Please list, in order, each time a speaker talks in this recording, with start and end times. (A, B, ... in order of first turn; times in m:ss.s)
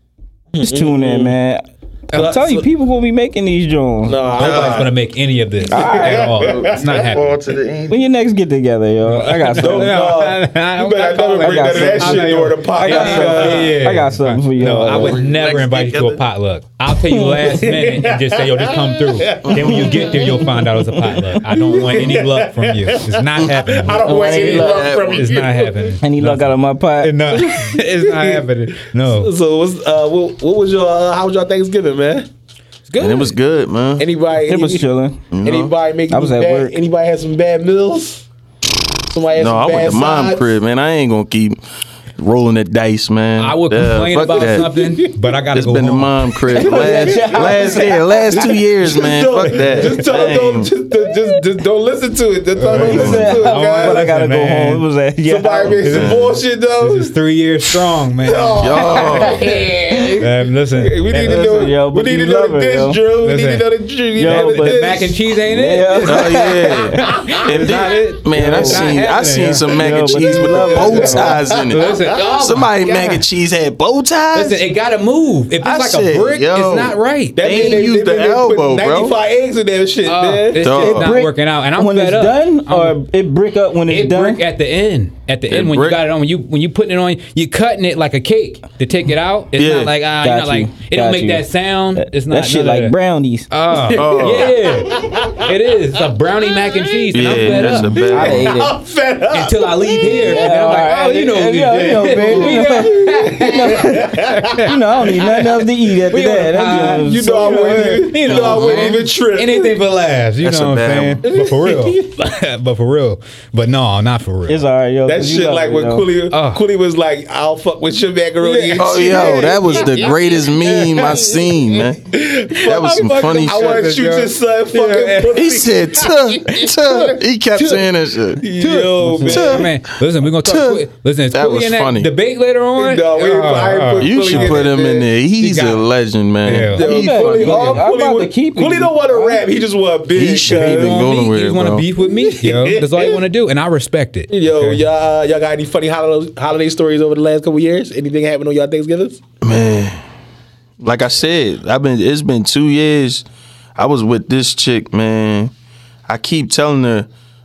0:00.5-0:01.3 A
0:00.6-0:04.2 B
0:02.1-0:02.7 A
0:04.0-0:04.9 A
0:04.4-0:04.9 C
0:04.4-0:07.4 D
0:05.7-0:07.1 A
0:05.7-0:06.4 B
0:06.0-0:08.0 C
0:07.9-0:10.0 B
0:09.1-0:26.5 D
0:09.6-0:13.8 A
0:11.4-0:15.2 B
0:14.8-0:16.2 C
0:17.1-0:17.5 B
0:17.5-0:20.6 A
0:19.4-0:19.9 C
0:20.7-0:21.1 B
0:21.4-0:26.0 A
0:23.4-0:23.7 C
0:24.0-0:24.9 B
0:24.4-0:25.4 C
0:26.0-0:27.1 B
0:27.0-0:29.3 D
0:27.3-0:28.4 A
0:29.0-0:32.3 A
0:32.9-0:33.3 D
0:33.0-0:34.0 C
0:34.0-0:34.8 A
0:34.4-0:35.2 B
0:35.3-0:35.7 C
0:35.4-0:38.3 A
0:36.1-0:36.7 B
0:39.1-0:40.5 A
0:39.4-0:41.6 C
0:42.2-0:44.7 C
0:43.4-0:46.2 D
0:44.6-0:45.1 A
0:45.5-0:50.7 C
0:46.5-0:54.0 A
0:46.5-0:48.6 B
0:49.6-0:49.9 B
0:52.5-0:54.8 D
0:52.7-0:55.8 B
0:52.7-0:53.2 C
0:55.2-0:57.1 A
0:55.6-0:56.4 C
0:55.8-0:59.1 D
0:58.2-1:05.2 A
0:58.6-0:59.6 C
1:00.2-1:01.6 D
1:01.2-1:03.0 B
1:03.2-1:03.7 D
1:04.2-1:07.0 B
1:04.2-1:09.7 D
1:06.0-1:14.6 C
1:07.2-1:08.0 A
1:08.3-1:09.0 B
1:09.7-1:11.4 B
1:10.0-1:13.2 A
1:11.6-1:13.1 D
1:14.3-1:17.7 D
1:15.6-1:19.1 C
1:17.3-1:20.7 A
1:20.0-1:23.0 D
1:20.6-1:21.2 C
1:20.7-1:24.4 B
1:23.9-1:32.9 D
1:25.5-1:26.0 C
1:29.6-1:29.9 C
1:30.2-1:33.5 B
1:33.5-1:38.4 D
1:33.9-1:34.6 C
1:33.9-1:35.5 A
1:36.7-1:40.9 A
1:37.1-1:38.5 C
1:38.1-1:38.8 B
1:39.3-1:45.4 D
1:40.1-1:48.8 B
1:42.0-1:45.5 A
1:46.1-1:54.6 D
1:46.7-1:49.8 A
1:50.4-1:51.2 C
1:51.2-1:52.1 A
1:54.5-1:56.1 B
1:55.0-2:09.7 A
1:56.3-1:56.6 D
1:58.4-1:58.8 D
1:58.8-2:02.0 C
2:02.5-2:03.9 C
2:02.8-2:05.6 D
2:05.3-2:08.4 C
2:08.5-2:14.7 D
2:09.3-2:09.7 C
2:10.3-2:12.1 C
2:12.8-2:15.1 A
2:14.0-2:17.8 C
2:15.4-2:15.8 D
2:16.4-2:16.9 D
2:16.5-2:21.1 A
2:16.8-2:19.4 B
2:20.1-2:21.8 C
2:20.4-2:24.8 D
2:22.0-2:23.2 A
2:24.3-2:29.2 A
2:29.4-2:30.0 C
2:30.8-2:35.5 C
2:36.1-2:37.1 C